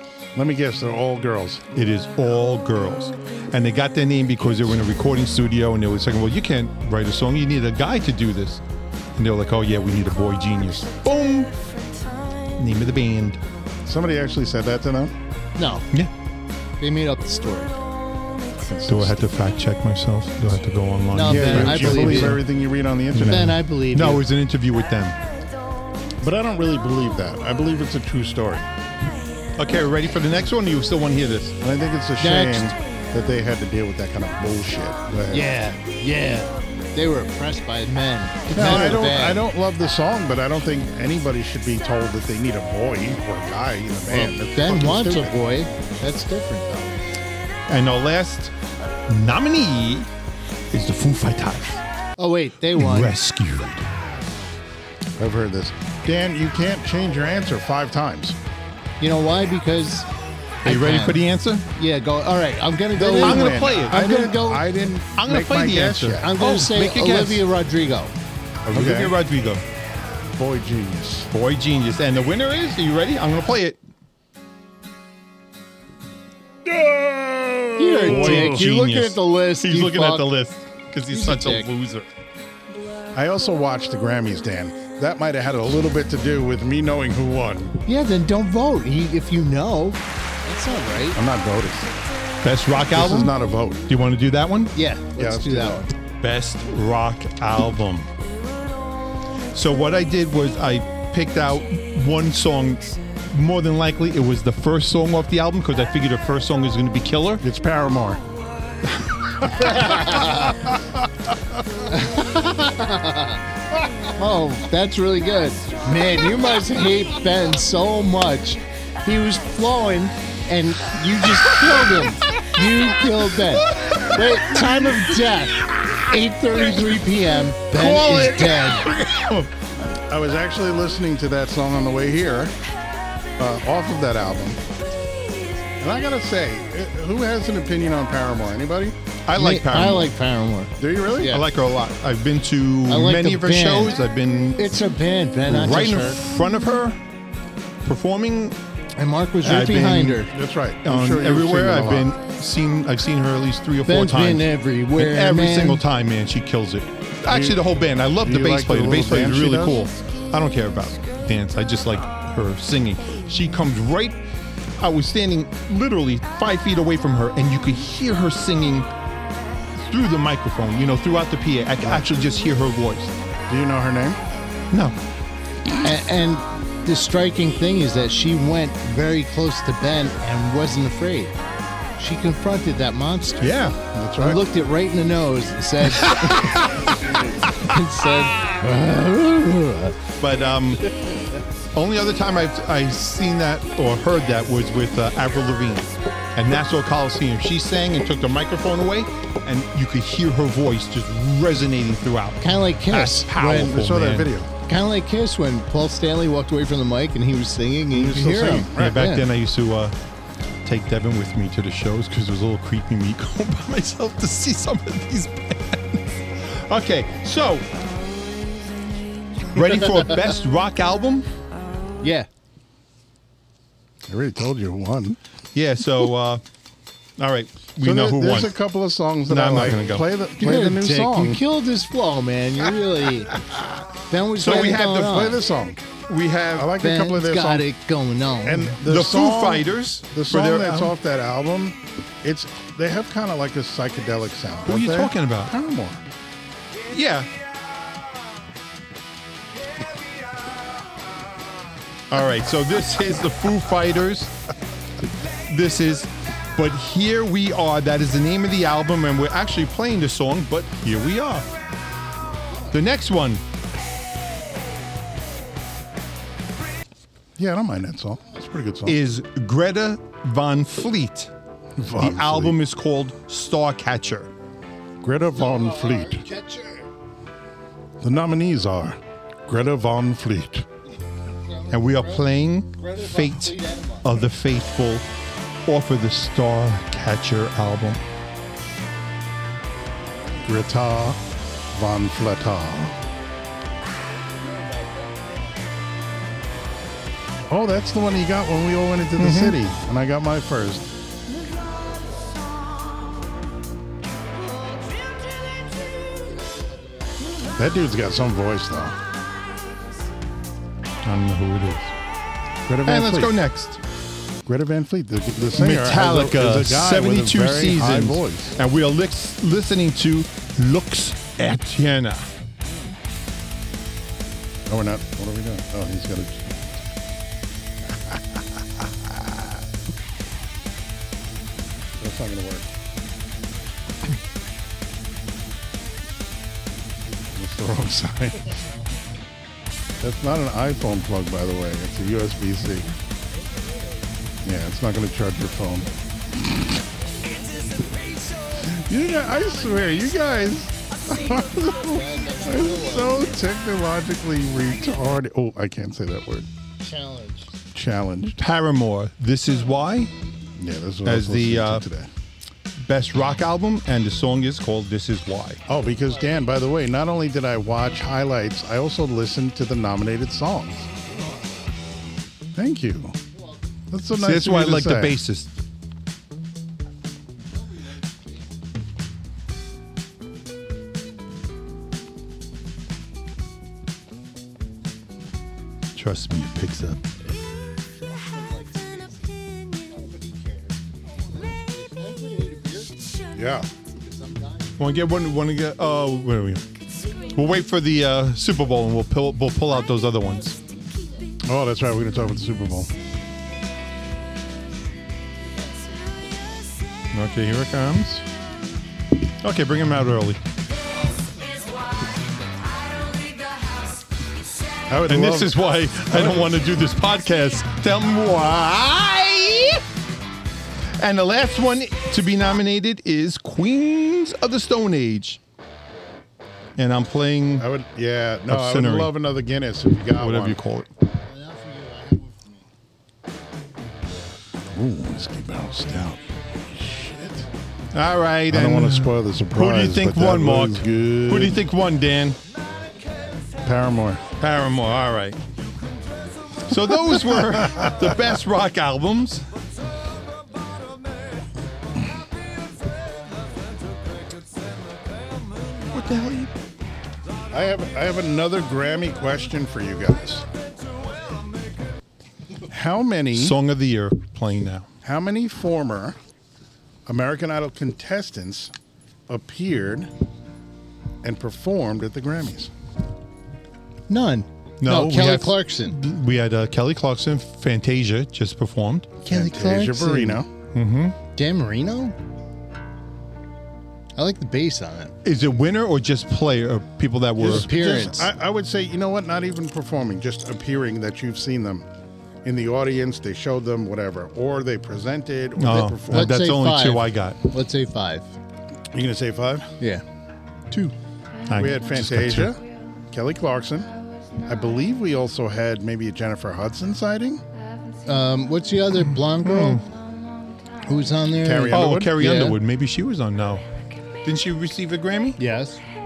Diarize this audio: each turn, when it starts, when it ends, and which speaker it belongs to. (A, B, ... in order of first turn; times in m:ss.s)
0:00.4-0:01.6 A
0:01.7-0:08.6 B
0:09.2-0:11.5 B
0:12.5-0:13.4 B
0:13.9-0:15.1 A
0:15.6-0:15.9 C
0:16.8-0:17.8 C
0:18.6-0:19.2 A
0:18.9-0:22.4 B
0:21.1-0:22.4 C
0:21.3-0:23.6 A
0:23.1-0:25.2 B
0:23.2-0:24.2 C
0:26.2-0:28.7 A
0:29.6-0:31.6 B
0:31.6-0:35.4 A
0:32.2-0:32.8 C
0:35.3-0:39.4 C
0:38.5-0:45.4 A
0:44.1-0:47.0 C
0:47.7-0:48.5 B
0:49.1-0:50.1 B
0:50.7-0:51.8 B
0:52.2-0:53.1 C
0:52.7-0:53.9 B
0:55.2-0:58.4 A
0:59.0-1:00.1 C
1:00.6-1:01.2 C
1:00.6-1:01.6 B
1:01.7-1:04.6 C
1:03.0-1:06.3 A
1:03.2-1:04.1 B
1:05.2-1:07.4 B
1:06.2-1:08.1 C
1:08.7-1:09.2 A
1:08.7-1:09.6 B
1:10.3-1:11.3 A
1:11.3-1:13.8 B
1:16.7-1:18.7 A
1:17.8-1:20.3 C
1:17.9-1:22.1 B
1:21.1-1:21.7 C
1:23.1-1:27.8 A
1:27.9-1:31.2 C
1:31.2-1:31.9 A
1:32.4-1:33.3 B
1:32.9-1:33.9 A
1:33.9-1:34.7 B
1:34.8-1:35.9 C
1:35.2-1:35.9 A
1:36.2-1:38.1 B
1:39.5-1:47.4 B
1:47.4-1:48.2 A
1:49.6-1:50.5 C
1:51.9-1:53.4 C
1:54.2-2:08.9 C
2:07.7-2:09.5 B
2:10.0-2:12.5 A
2:13.4-2:14.6 A
2:15.8-2:19.0 A
2:19.3-2:20.1 B
2:19.4-2:21.4 C
2:20.8-2:21.4 A
2:21.2-2:24.8 B
2:22.9-2:24.0 C
2:24.6-2:26.2 C
2:25.5-2:27.0 B
2:27.8-2:28.6 B
2:29.0-2:30.3 C
2:29.4-2:30.3 B
2:30.3-2:32.1 A
2:30.8-2:44.2 B
2:33.9-2:35.8 C
2:37.3-2:37.6 A
2:38.2-2:39.8 A
2:44.8-2:48.9 B
2:49.8-2:53.1 B
2:53.5-2:54.2 A
2:54.7-2:55.0 B
2:55.8-3:01.4 C
3:02.0-3:03.5 C
3:03.4-3:03.8 B
3:03.9-3:04.4 A
3:04.2-3:06.7 C
3:05.9-3:07.2 B
3:07.4-3:10.0 C
3:08.2-3:08.5 B
3:10.2-3:11.0 B
3:11.7-3:24.3 B
3:22.4-3:23.8 C
3:23.4-3:24.5 A
3:24.6-3:29.3 C
3:27.9-3:29.0 A
3:28.7-3:30.0 B
3:30.6-3:37.7 B
3:39.5-3:41.3 B
3:42.0-3:42.3 C
3:44.1-3:45.2 A
3:45.5-3:46.4 B
3:47.2-3:48.6 B
3:47.8-3:51.4 A
3:49.3-3:50.1 B
3:50.4-3:53.3 C
3:54.1-3:55.4 C
3:54.4-3:55.3 B
3:55.0-3:55.8 A
3:56.1-3:56.7 B
3:56.6-3:57.6 A
3:56.8-3:58.8 C
3:58.4-4:06.0 A
3:58.8-4:00.9 B
4:04.7-4:05.5 B
4:06.9-4:07.3 B
4:12.1-4:14.3 B
4:15.5-4:21.5 B
4:22.7-4:23.4 B
4:27.4-4:29.0 A
4:28.9-4:31.3 B
4:31.8-4:32.6 A
4:32.0-4:34.3 B
4:35.0-4:36.2 A
4:35.4-4:36.9 C
4:38.0-4:40.6 A
4:41.4-4:44.1 C
4:41.7-4:45.1 B
4:45.7-4:48.0 B
4:50.4-4:51.2 A
4:51.7-4:52.9 A
4:57.5-5:00.9 A
4:59.2-4:59.6 B
5:07.6-5:09.0 A
5:11.0-5:11.9 B
5:12.7-5:13.3 A
5:12.9-5:13.8 B
5:14.5-5:18.6 A
5:15.6-5:22.3 B
5:24.7-5:26.7 A
5:32.0-5:32.7 A
5:37.3-5:38.5 A
5:40.0-5:42.9 A
5:44.4-5:45.9 A
5:48.6-5:56.5 A
5:51.6-5:53.2 C
5:56.8-5:57.5 C
5:57.7-5:58.4 A
5:58.4-6:00.1 B
6:00.6-6:02.1 A
6:01.0-6:01.9 B
6:02.8-6:05.6 B
6:05.7-6:10.9 A
6:12.6-6:13.2 A
6:13.9-6:15.2 A
6:14.2-6:15.5 B
6:25.9-6:27.0 B
6:28.1-6:29.2 C
6:29.7-6:32.9 C
6:33.3-6:33.7 A
6:34.0-6:34.7 C
6:34.8-6:36.6 B
6:37.3-6:40.6 B
6:41.4-6:42.9 A
6:47.1-6:48.3 B
6:49.4-6:50.4 B
6:54.9-6:55.5 A
6:55.1-6:59.8 B
6:56.1-6:56.4 A
7:01.0-7:05.4 B
7:06.8-7:07.7 B
7:07.6-7:10.6 A
7:08.5-7:09.1 B
7:10.2-7:10.9 B
7:11.1-7:12.5 C
7:14.7-7:17.5 A
7:17.9-7:22.4 B
7:18.5-7:21.6 A
7:23.6-7:24.2 A
7:24.4-7:25.4 B
7:26.6-7:29.5 B
7:35.9-7:36.5 B
7:37.5-7:40.5 A
7:42.7-7:43.6 A
7:43.3-7:44.9 B
7:45.0-7:46.2 A
7:47.1-7:48.7 A
7:49.3-7:50.1 A
7:51.2-7:52.7 A
7:54.1-7:56.0 C
7:54.8-7:59.2 B
7:59.2-8:00.5 A
7:59.3-8:00.4 C
8:00.7-8:01.2 B
8:01.4-8:02.2 C
8:04.2-8:05.1 C
8:05.2-8:07.7 B
8:07.4-8:11.9 A
8:07.4-8:08.3 C
8:12.4-8:16.3 A
8:15.6-8:17.4 B
8:16.1-8:18.3 C
8:18.9-8:19.7 A
8:21.5-8:22.6 B
8:21.5-8:27.4 A
8:28.0-8:29.8 C
8:29.4-8:29.8 B
8:30.8-8:32.6 C
8:31.4-8:32.1 A
8:31.7-8:33.7 B
8:34.2-8:35.4 B
8:35.4-8:35.8 C